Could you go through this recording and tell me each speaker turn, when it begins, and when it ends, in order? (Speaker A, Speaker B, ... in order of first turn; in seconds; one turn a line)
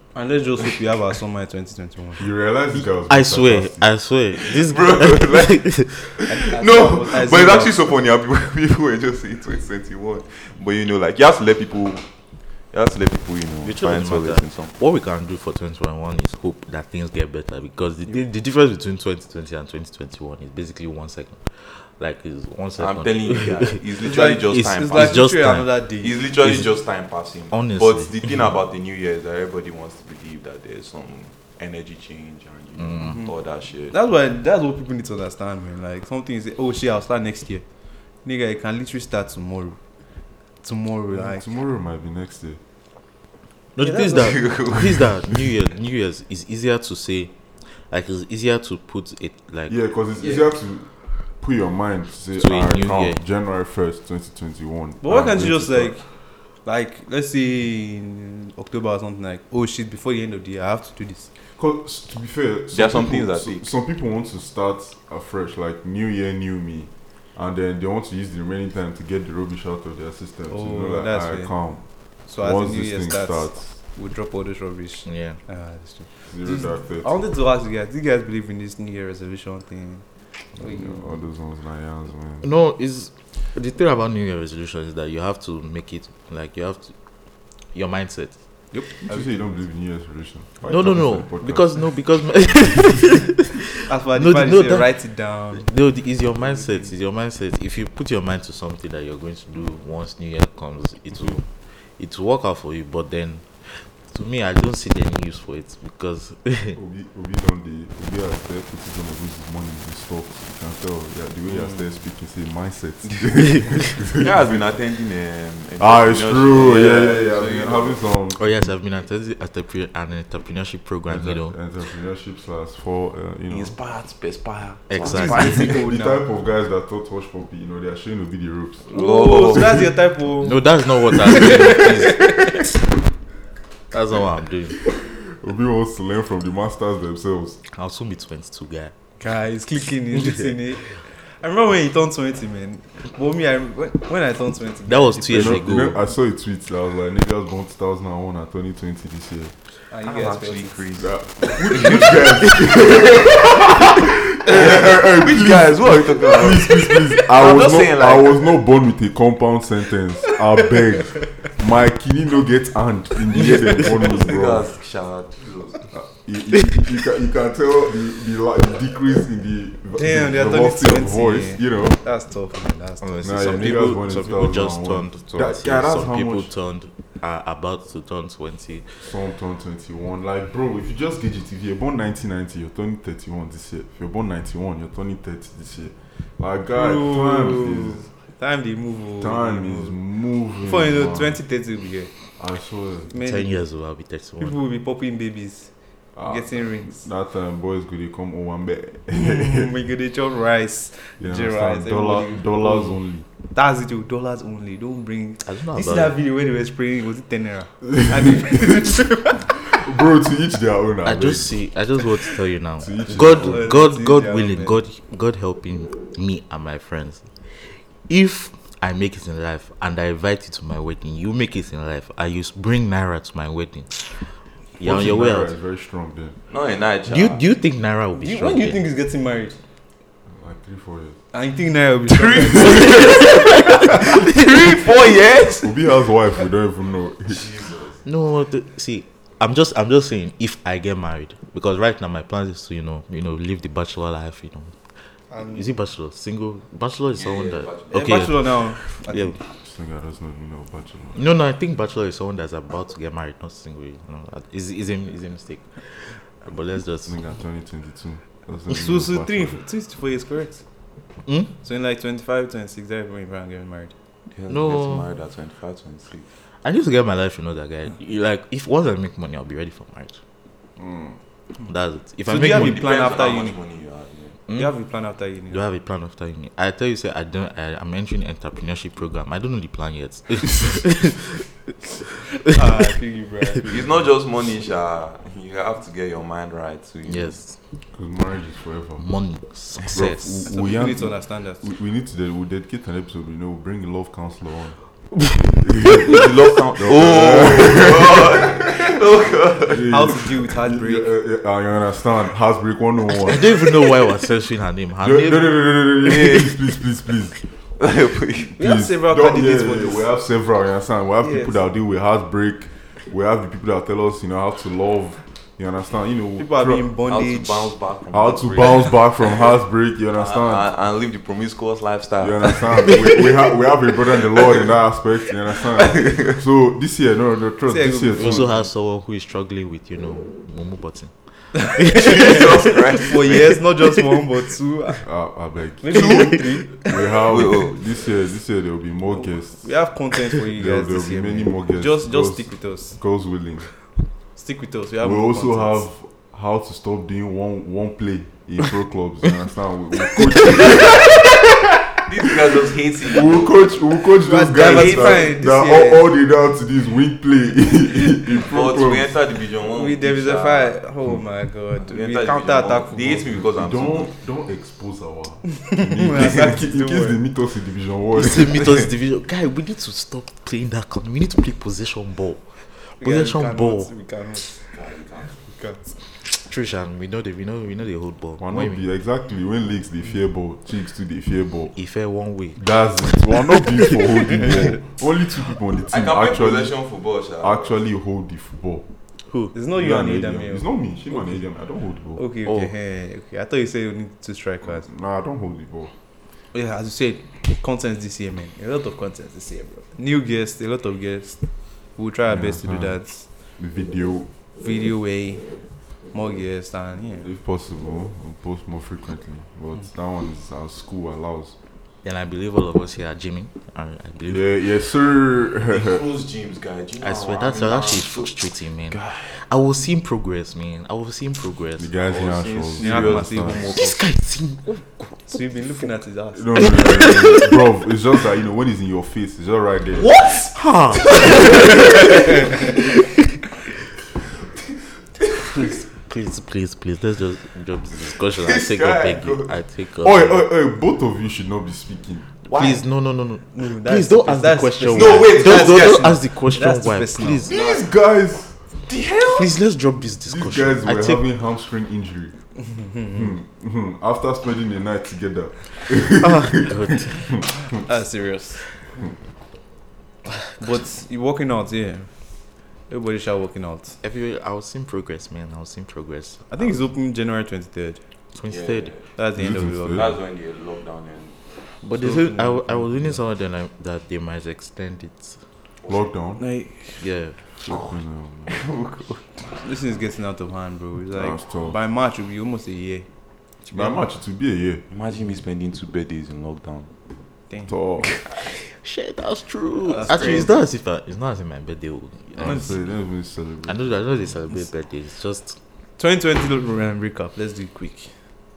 Speaker A: 0.1-2.3
Speaker B: 2.2-3.9
Speaker C: 3.1-6.2
Speaker D: 4.4-12.1
Speaker A: 6.3-7.8
Speaker D: 12.7-14.7
Speaker C: 13.6-25.8
Speaker D: 22.8-25.3
Speaker A: 24.0-26.2
Speaker D: 26.0-33.9
Speaker C: 26.4-26.8
Speaker C: 27.5-28.3
Speaker C: 32.8-33.2
Speaker A: 33.0-33.3
Speaker A: 33.9-37.6
Speaker A: 38.2-39.8
Speaker A: 40.6-41.5
Speaker B: 41.1-42.6
Speaker C: 43.8-47.3
Speaker A: 43.8-44.4
Speaker D: 44.1-45.3
Speaker C: 47.9-49.8
Speaker B: 49.7-55.9
Speaker C: 52.4-53.2
Speaker A: 55.0-56.0
Speaker A: 56.6-61.3
Speaker B: 61.6-73.7
Speaker D: 62.7-63.6
Speaker A: 70.5-81.0
Speaker C: 75.1-75.4
Speaker B: 76.3-77.1
Speaker B: 80.6-82.5
Speaker C: 82.4-86.9
Speaker C: 87.7-88.4
Speaker A: 88.7-89.4
Speaker B: 89.0-91.9
Speaker C: 90.7-94.9
Speaker A: 93.9-95.7
Speaker C: 95.5-106.8
Speaker A: 96.4-96.9
Speaker B: 106.8-114.7
Speaker D: 114.1-118.0
Speaker B: 115.8-118.7
Speaker C: 118.4-121.5
Speaker B: 121.1-123.8
Speaker D: 123.5-125.7
Speaker C: 124.9-125.7
Speaker A: 125.1-126.2
Speaker B: 125.3-129.0
Speaker D: 128.9-129.9
Speaker A: 128.9-132.6
Speaker B: 129.5-129.9
Speaker C: 130.4-132.4
Speaker C: 133.9-134.8
Speaker B: 134.9-137.6
Speaker C: 137.7-138.9
Speaker A: 139.2-145.6
Speaker C: 139.7-140.8
Speaker C: 144.9-146.0
Speaker B: 145.3-149.5
Speaker A: 149.9-150.9
Speaker D: 150.0-158.4
Speaker B: 151.0-164.7
Speaker D: 163.7-165.9
Speaker B: 165.9-172.0
Speaker A: 170.0-173.4
Speaker C: 173.0-179.0
Speaker B: 173.2-176.5
Speaker B: 179.0-188.1
Speaker A: 186.8-190.0
Speaker B: 189.2-191.4
Speaker A: 190.6-192.1
Speaker B: 192.4-193.1
Speaker A: 193.1-193.6
Speaker C: 193.2-194.6
Speaker A: 194.4-195.7
Speaker B: 196.1-199.7
Speaker A: 196.2-197.1
Speaker A: 199.1-203.0
Speaker B: 201.2-203.2
Speaker A: 203.5-209.7
Speaker C: 205.4-206.1
Speaker B: 207.9-208.5
Speaker B: 209.5-211.6
Speaker C: 211.0-225.5
Speaker B: 212.8-213.7
Speaker A: 213.1-214.8
Speaker B: 224.8-226.4
Speaker D: 226.5-227.4
Speaker C: 227.1-228.8
Speaker A: 228.2-229.6
Speaker B: 230.3-231.2
Speaker A: 231.3-233.5
Speaker D: 232.1-235.8
Speaker C: 232.9-234.6
Speaker B: 235.6-237.4
Speaker D: 237.3-238.0
Speaker C: 238.0-249.4
Speaker A: 245.3-245.7
Speaker D: 247.2-248.2
Speaker A: 247.9-249.4
Speaker B: 249.6-251.2
Speaker C: 251.1-257.2
Speaker B: 257.1-259.6
Speaker A: 258.7-260.6
Speaker C: 261.2-261.5
Speaker A: 261.6-263.9
Speaker D: 264.3-266.3
Speaker C: 264.5-265.1
Speaker C: 266.6-270.2
Speaker B: 270.8-271.2
Speaker C: 271.6-272.9
Speaker A: 272.3-273.6
Speaker D: 272.3-274.4
Speaker C: 274.5-274.7
Speaker A: 274.5-275.6
Speaker C: 275.5-281.5
Speaker A: 282.5-284.0
Speaker D: 283.7-287.4
Speaker C: 287.1-287.6
Speaker B: 287.9-289.1
Speaker C: 289.0-290.5
Speaker B: 289.9-294.8
Speaker A: 290.2-291.6
Speaker B: 295.6-298.7
Speaker D: 296.0-299.9
Speaker B: 299.7-303.7
Speaker A: 299.9-301.1
Speaker C: 303.2-305.5
Speaker B: 305.0-307.4
Speaker D: 306.0-306.6
Speaker D: 307.8-308.6
Speaker A: 308.6-310.1
Speaker B: 308.6-316.9
Speaker A: 311.2-311.6
Speaker A: 316.4-317.8
Speaker D: 317.1-319.4
Speaker B: 318.1-320.7
Speaker D: 320.1-323.3
Speaker B: 322.2-328.5
Speaker D: 325.7-326.4
Speaker A: 327.6-328.7
Speaker C: 328.1-332.8
Speaker A: 331.6-335.1
Speaker D: 331.9-333.6
Speaker B: 335.0-339.8
Speaker A: 335.8-336.9
Speaker D: 335.9-337.8
Speaker A: 339.6-343.0
Speaker B: 340.5-343.7
Speaker A: 344.4-345.9
Speaker B: 345.0-359.1
Speaker D: 352.1-353.7
Speaker A: 354.2-356.1
Speaker D: 354.5-355.3
Speaker D: 358.3-360.8
Speaker A: 359.7-363.3
Speaker D: 361.8-364.1
Speaker B: 363.4-368.7
Speaker A: 365.6-367.2
Speaker C: 368.1-373.9
Speaker A: 373.0-374.7
Speaker D: 374.7-375.3
Speaker A: 375.5-376.0
Speaker C: 376.2-378.8
Speaker B: 378.4-381.8
Speaker C: 381.8-382.6
Speaker B: 382.6-386.8
Speaker D: 385.8-387.8
Speaker B: 387.4-388.9
Speaker C: 389.3-389.5
Speaker A: 389.5-390.7
Speaker B: 389.7-392.2
Speaker A: 392.1-394.9
Speaker C: 392.5-392.7
Speaker B: 394.7-395.9
Speaker A: 396.5-401.4
Speaker A: 402.0-403.3
Speaker B: 402.3-403.0
Speaker B: 403.6-404.3
Speaker A: 404.6-407.3
Speaker B: 407.2-411.5
Speaker C: 412.0-414.5
Speaker B: 414.3-416.0
Speaker D: 415.7-418.3
Speaker C: 417.0-421.9
Speaker D: 418.9-419.3
Speaker B: 421.8-423.7
Speaker D: 422.0-423.9
Speaker A: 422.8-423.9
Speaker C: 423.5-425.8
Speaker A: 425.3-427.2
Speaker B: 426.3-430.1
Speaker C: 426.5-427.6
Speaker D: 430.0-432.8
Speaker C: 430.4-432.9
Speaker C: 435.5-440.5
Speaker D: 438.1-439.5
Speaker B: 440.0-442.2
Speaker D: 442.5-442.8
Speaker C: 442.5-447.6
Speaker A: 443.5-445.8
Speaker D: 444.9-446.2
Speaker A: 446.4-447.5
Speaker D: 447.4-448.0
Speaker B: 447.5-448.5
Speaker D: 448.9-449.5
Speaker C: 449.2-451.3
Speaker B: 450.3-452.4
Speaker A: 452.6-453.4
Speaker B: 453.0-457.7
Speaker C: 456.1-457.5
Speaker A: 457.8-458.7
Speaker A: 460.6-462.1
Speaker A: 462.9-464.0
Speaker C: 464.0-466.5
Speaker A: 466.5-468.0
Speaker C: 468.3-469.0
Speaker D: 468.5-469.1
Speaker A: 469.1-470.1
Speaker B: 469.4-470.1
Speaker D: 469.9-471.4
Speaker C: 471.8-475.4
Speaker A: 471.9-473.2
Speaker B: 475.9-476.4
Speaker A: 476.4-477.0
Speaker C: 477.0-477.4
Speaker B: 477.6-478.6
Speaker D: 478.5-479.2
Speaker A: 479.4-483.1
Speaker B: 481.1-481.8
Speaker B: 483.7-484.8
Speaker D: 484.9-486.9
Speaker B: 487.6-488.2
Speaker C: 488.3-493.0
Speaker A: 489.9-490.6
Speaker D: 489.9-490.5
Speaker B: 492.4-494.0
Speaker C: 493.6-495.6
Speaker A: 496.0-498.1